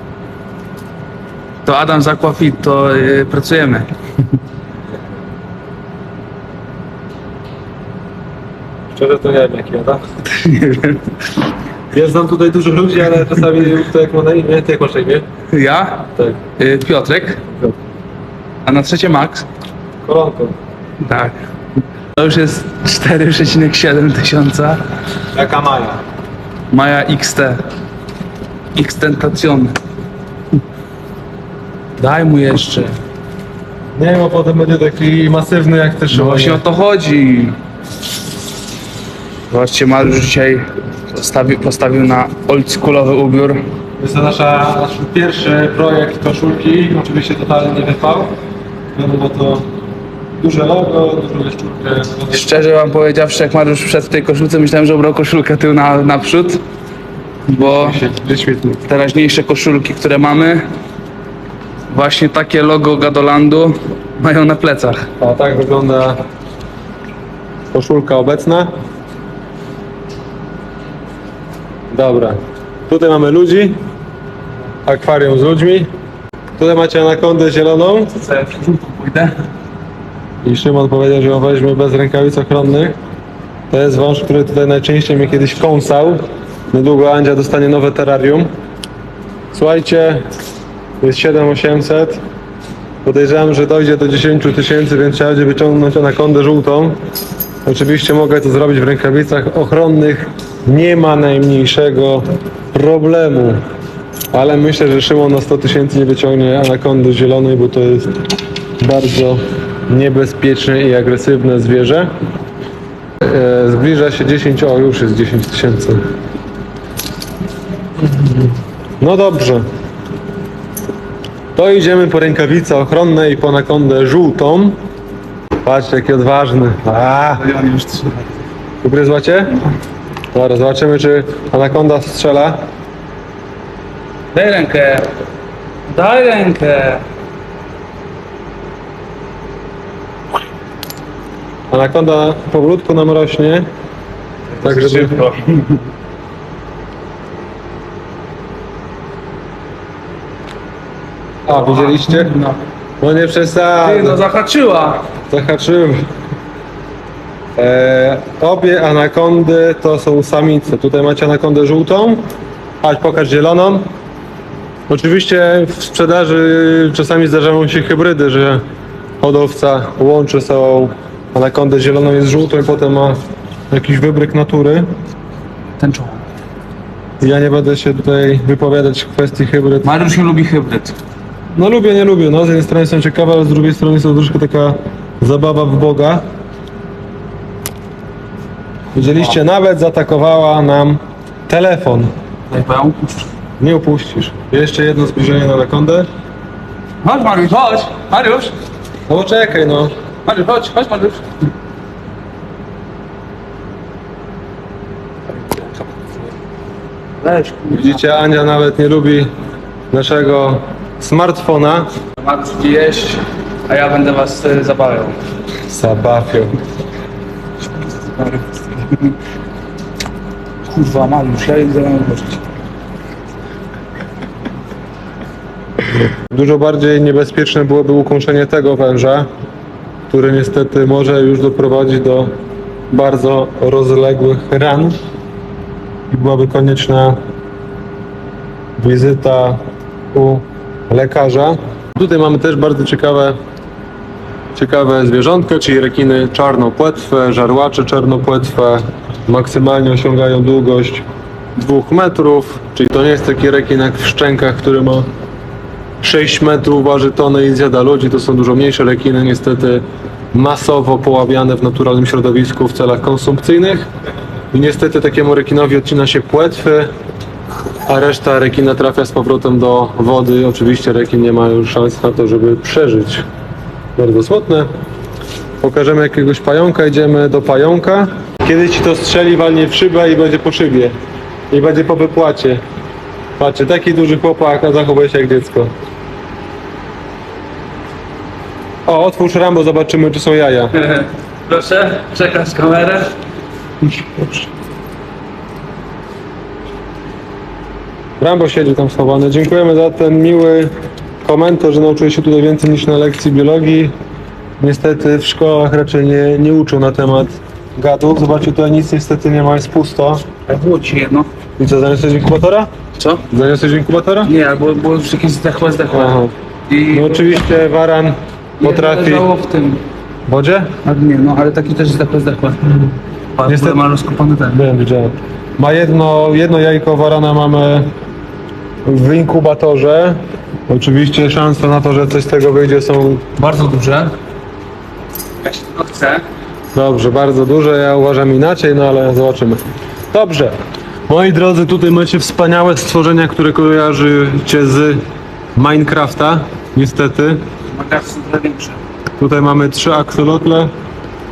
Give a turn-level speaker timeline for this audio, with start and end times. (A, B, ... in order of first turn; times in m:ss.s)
0:01.6-0:03.9 A
0:08.9-0:10.0 B
0:10.2-0:11.2 A
0:11.9-0:15.2 B
0:15.5-0:17.4 A
0:16.2-0:16.4 B
0:18.6-0:19.4 A
0:20.0-0:20.5 B
0:21.0-0:21.4 A
0:22.2-0:24.8 A
0:25.3-0:26.0 B
0:26.7-0:27.6 A
0:28.7-0:29.8 A
0:32.0-0:32.9 A
0:34.0-0:36.6 B
0:36.1-0:37.6 A
0:39.5-0:43.6 A
0:44.0-0:48.3 B
0:49.0-0:49.7 B
0:50.4-0:52.4 B
0:52.3-0:56.6 A
0:57.5-0:58.0 A
0:57.8-0:58.8 B
0:58.9-1:00.6 A
1:01.9-1:05.1 A
1:05.2-1:06.2 B
1:07.7-1:08.7 B
1:11.9-1:13.8 B
1:14.8-1:15.9 B
1:16.6-1:18.2 B
1:18.2-1:19.4 A
1:20.4-1:23.0 B
1:23.7-1:28.5 B
1:29.5-1:30.3 B
1:31.0-1:32.2 B
1:33.0-1:36.9 B
1:37.6-1:43.6 B
1:44.3-1:48.2 B
1:48.8-1:52.1 B
1:53.2-1:56.0 B
1:58.0-1:59.6 B
2:01.6-2:04.8 B
2:05.6-2:07.5 B
2:07.3-2:08.3 A
2:08.8-2:09.6 B
2:10.3-2:12.6 B
2:14.3-2:15.1 A
2:15.9-2:17.0 A
2:21.7-2:23.6 B
2:24.5-2:25.8 A
2:24.6-2:25.2 B
2:31.4-2:32.3 B
2:31.6-2:32.6 A
2:33.0-2:34.2 B
2:33.8-2:35.1 A
2:35.3-2:36.0 B
2:37.6-2:42.2 B
2:42.8-2:43.9 B
2:44.9-2:48.6 B
2:49.2-2:53.2 B
2:53.7-2:54.9 B
2:55.8-2:56.2 A
2:57.2-2:59.9 B
2:59.8-3:00.9 A
3:01.5-3:06.2 B
3:08.9-3:12.1 B
3:12.5-3:13.2 A
3:13.6-3:16.1 B
3:17.0-3:18.5 A
3:19.1-3:19.9 B
3:20.2-3:21.2 A
3:25.3-3:26.1 A
3:27.2-3:28.1 A
3:27.7-3:29.3 B
3:29.9-3:31.9 B
3:32.2-3:35.2 A
3:35.7-3:36.6 B
3:37.7-3:39.2 A
3:40.7-3:42.4 A
3:46.2-3:49.3 B
3:50.1-3:52.3 B
3:52.9-3:55.0 B
3:56.1-3:57.2 B
3:58.8-4:03.4 B
4:04.5-4:11.0 B
4:11.6-4:15.1 B
4:16.0-4:19.8 B
4:20.3-4:23.9 B
4:24.5-4:26.9 B
4:27.9-4:33.2 B
4:34.0-4:34.7 B
4:35.6-4:40.9 B
4:41.5-4:42.6 B
4:43.4-4:45.7 B
4:48.8-4:50.8 B
4:50.8-4:53.1 A
4:54.1-4:54.4 B
4:58.2-5:00.7 B
5:01.2-5:03.9 B
5:04.6-5:10.2 B
5:10.5-5:11.3 A
5:11.6-5:12.7 B
5:13.0-5:13.2 A
5:13.3-5:14.3 B
5:14.2-5:17.4 A
5:15.9-5:16.3 B
5:16.9-5:19.3 B
5:18.6-5:19.8 A
5:20.3-5:20.7 B
5:20.8-5:22.7 A
5:23.4-5:24.6 A
5:23.4-5:23.8 B
5:24.5-5:27.9 B
5:28.8-5:30.2 B
5:30.7-5:33.4 B
5:33.4-5:34.1 A
5:35.4-5:36.2 A
5:36.7-5:40.5 B
5:41.1-5:45.0 B
5:45.5-5:47.4 B
5:47.7-5:48.8 A
5:49.2-5:50.7 B